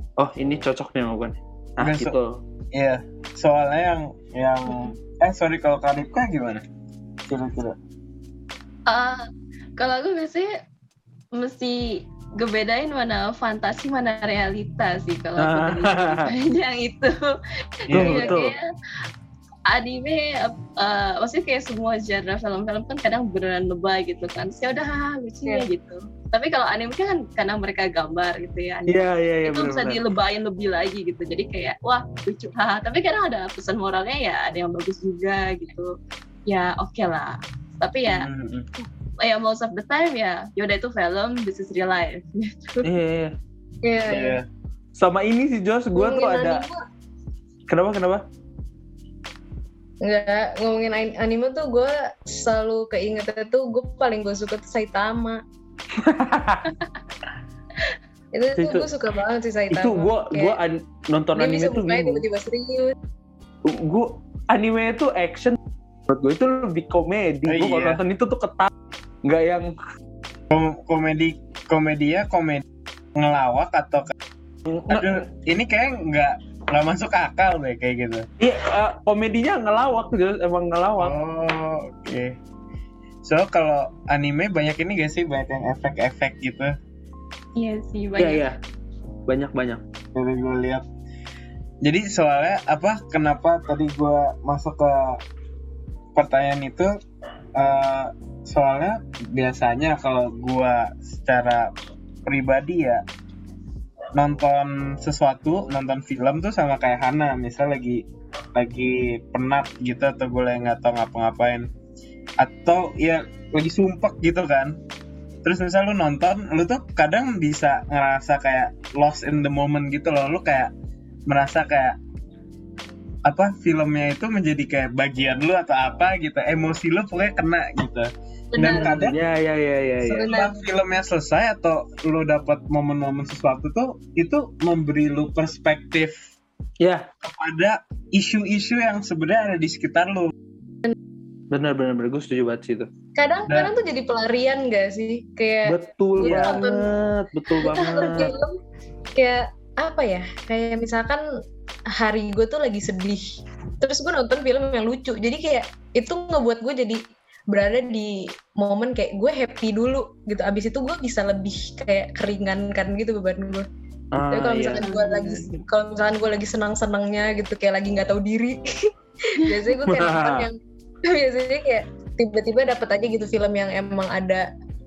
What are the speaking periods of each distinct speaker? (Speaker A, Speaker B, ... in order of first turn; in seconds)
Speaker A: 0.2-2.4, 15.4-16.3, 17.9-18.6, 28.9-30.0, 42.8-43.4, 45.0-46.6, 47.7-48.2, 56.0-56.7, 58.6-58.9, 59.7-62.2, 63.6-68.7, 69.2-69.7, 74.7-75.2, 78.4-81.2, 88.2-88.6, 89.3-89.8, 128.6-130.4, 136.8-137.1, 141.5-142.9, 145.7-148.3, 164.1-164.9, 169.9-170.5
Speaker B: 1.8-2.2, 2.7-6.6, 7.3-7.8, 17.9-18.4, 38.1-38.7, 44.0-44.5, 67.5-68.0, 70.5-74.2, 74.9-78.3, 81.0-82.3, 83.2-86.7, 90.2-90.8, 91.8-95.2, 96.2-96.9, 97.5-101.7, 102.3-103.0, 104.2-108.0, 108.5-111.7, 112.4-114.8, 115.4-120.7, 121.3-122.0, 123.2-129.2, 130.2-136.3, 137.2-140.3, 146.3-146.6
Speaker C: 8.9-9.3, 9.8-10.6, 11.3-18.6, 19.7-35.9, 36.5-38.3, 39.2-42.9, 87.6-88.5, 147.7-148.2, 164.7-165.7
Speaker D: 43.8-44.4, 46.0-46.8, 50.0-55.4, 58.4-60.6, 61.3-62.9, 130.1-130.6, 143.2-146.9, 147.6-148.5, 149.2-151.2, 151.9-153.2, 153.8-157.0, 157.5-163.7, 164.3-168.6, 169.3-174.5